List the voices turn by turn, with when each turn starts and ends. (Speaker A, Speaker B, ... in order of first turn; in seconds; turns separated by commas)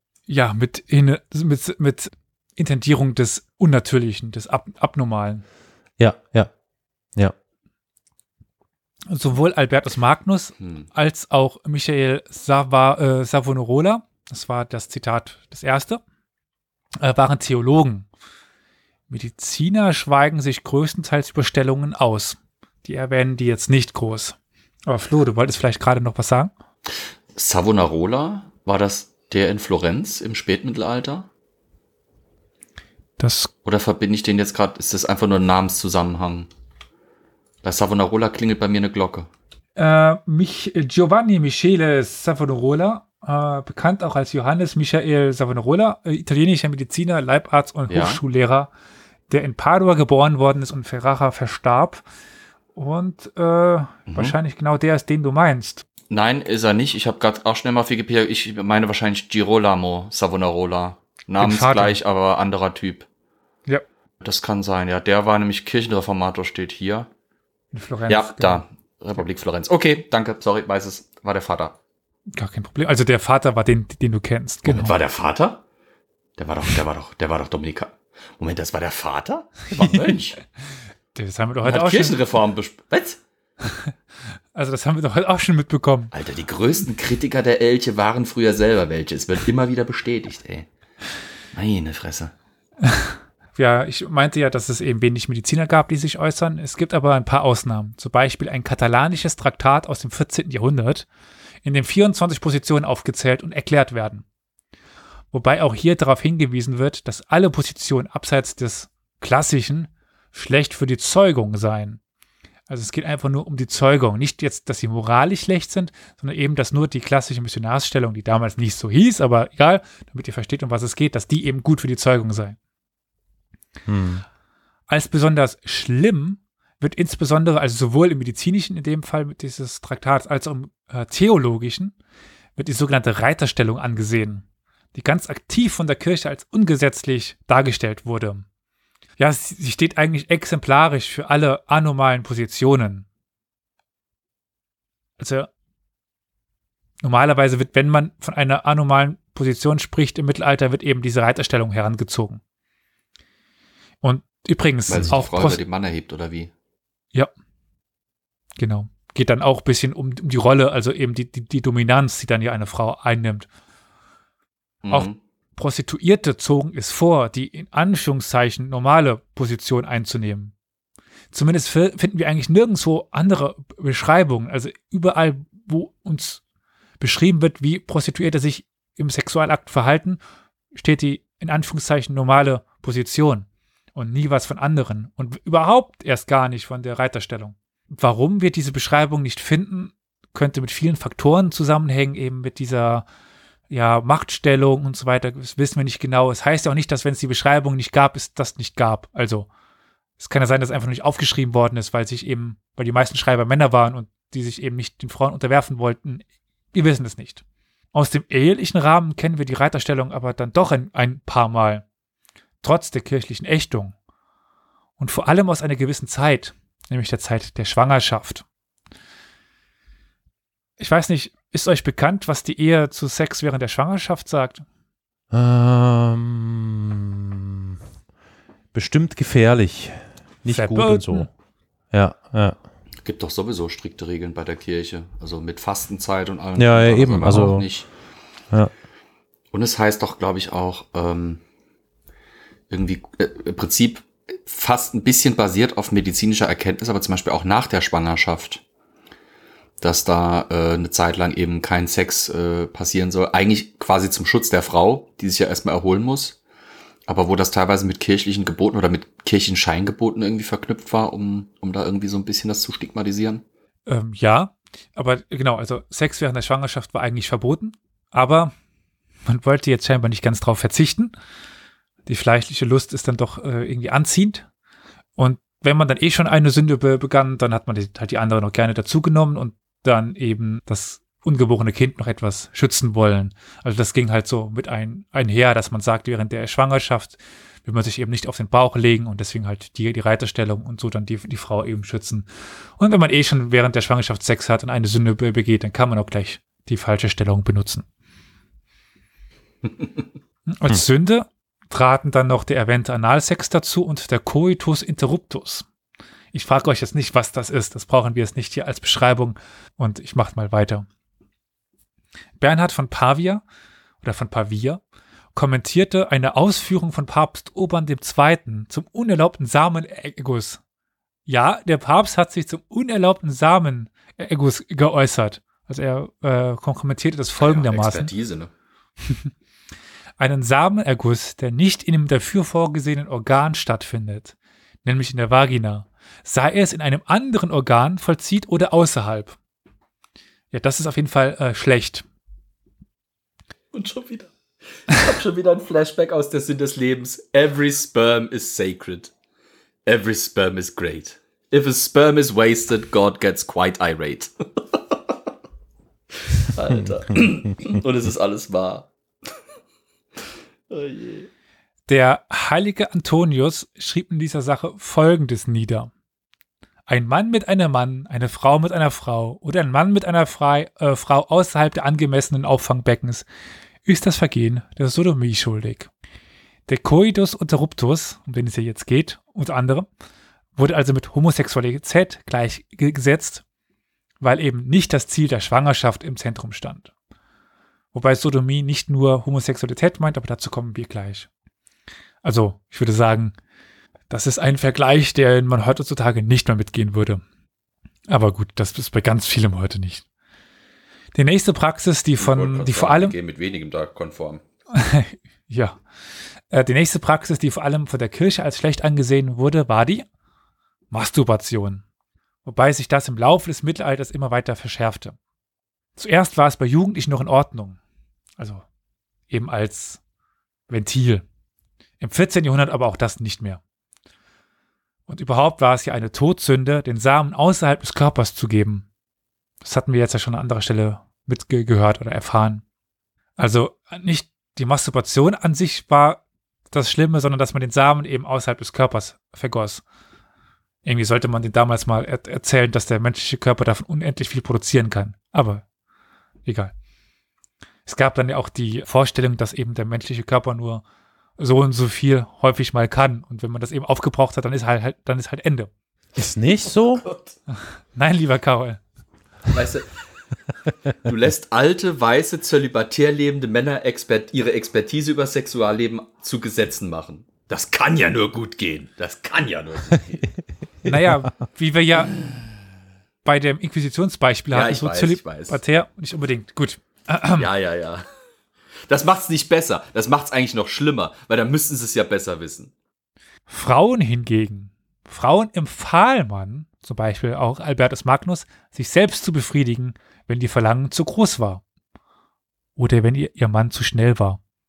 Speaker A: 0.3-5.4, Speaker B: 6.0-6.5, Speaker A: 9.1-16.0, Speaker A: 17.0-18.1, Speaker A: 19.1-26.5, Speaker C: 27.4-31.3, Speaker A: 33.2-33.5, Speaker C: 33.6-36.5, Speaker C: 37.6-39.3, Speaker A: 39.8-48.7, Speaker C: 47.9-48.2, Speaker A: 49.3-52.0, Speaker A: 52.8-55.8, Speaker C: 54.1-54.4, Speaker C: 56.1-63.1, Speaker A: 61.4-62.0, Speaker C: 64.2-67.1, Speaker A: 67.7-68.6, Speaker C: 68.1-71.8, Speaker A: 72.3-75.0, Speaker C: 74.7-75.6, Speaker C: 76.4-80.4, Speaker A: 79.7-80.2, Speaker A: 81.2-82.2, Speaker C: 81.6-83.2, Speaker A: 84.5-86.1, Speaker C: 86.1-90.7, Speaker C: 91.5-92.3, Speaker A: 92.8-101.1, Speaker A: 101.6-104.2, Speaker A: 105.3-112.0, Speaker A: 112.7-122.6, Speaker B: 123.9-124.2, Speaker A: 124.9-131.9, Speaker A: 132.6-138.4, Speaker A: 139.2-143.1, Speaker A: 145.2-145.5, Speaker A: 147.0-152.4, Speaker A: 154.0-155.6, Speaker C: 154.9-156.5, Speaker A: 158.6-163.5, Speaker C: 164.8-165.2, Speaker A: 164.9-170.5, Speaker A: 171.3-176.4, Speaker A: 177.0-180.2, Speaker A: 180.7-193.1, Speaker A: 193.7-199.5, Speaker A: 200.2-211.8, Speaker A: 212.6-213.9, Speaker A: 215.0-218.4, Speaker A: 220.8-224.6, Speaker B: 225.3-227.8, Speaker B: 228.7-231.3, Speaker A: 230.5-231.3, Speaker B: 231.9-232.6, Speaker C: 233.1-237.9, Speaker B: 236.6-237.7, Speaker C: 239.5-241.4, Speaker C: 242.7-248.6, Speaker C: 249.8-256.4, Speaker C: 257.1-263.4, Speaker A: 263.9-268.5, Speaker A: 269.3-271.1, Speaker A: 272.1-274.5, Speaker A: 275.2-297.9, Speaker A: 300.5-305.7, Speaker A: 306.3-310.9, Speaker A: 312.4-313.4, Speaker A: 314.0-314.8, Speaker A: 315.4-320.6, Speaker A: 321.3-328.1, Speaker C: 327.4-328.5, Speaker A: 329.1-329.3, Speaker A: 330.2-339.4, Speaker A: 340.5-342.1, Speaker C: 343.7-349.1, Speaker C: 349.9-355.0, Speaker C: 356.1-359.3, Speaker C: 360.7-361.3, Speaker A: 361.9-365.9, Speaker A: 366.9-373.3, Speaker A: 373.9-375.9, Speaker A: 376.7-379.9, Speaker A: 380.6-383.4, Speaker A: 384.2-386.9, Speaker A: 387.9-391.3, Speaker A: 392.2-393.4, Speaker A: 394.1-397.2, Speaker A: 398.1-400.1, Speaker A: 401.1-403.2, Speaker C: 402.2-404.4, Speaker A: 404.7-405.8, Speaker A: 406.5-410.1, Speaker A: 410.9-411.8, Speaker A: 412.4-415.2, Speaker A: 416.0-417.8, Speaker A: 418.4-418.6, Speaker A: 419.3-420.0, Speaker A: 420.7-421.2, Speaker A: 422.0-423.6, Speaker A: 425.1-428.9, Speaker A: 429.6-432.6, Speaker A: 433.4-439.8, Speaker A: 440.9-445.6, Speaker A: 446.4-446.7, Speaker A: 447.9-450.8, Speaker A: 451.4-455.7, Speaker B: 456.2-457.1, Speaker C: 457.0-457.3, Speaker A: 457.6-458.8, Speaker C: 459.5-459.9, Speaker C: 461.0-470.3, Speaker B: 470.8-471.3, Speaker A: 470.9-472.2, Speaker A: 473.2-477.5, Speaker C: 474.5-475.6, Speaker C: 477.4-478.1, Speaker C: 478.9-482.7, Speaker A: 483.5-491.6, Speaker A: 492.8-494.4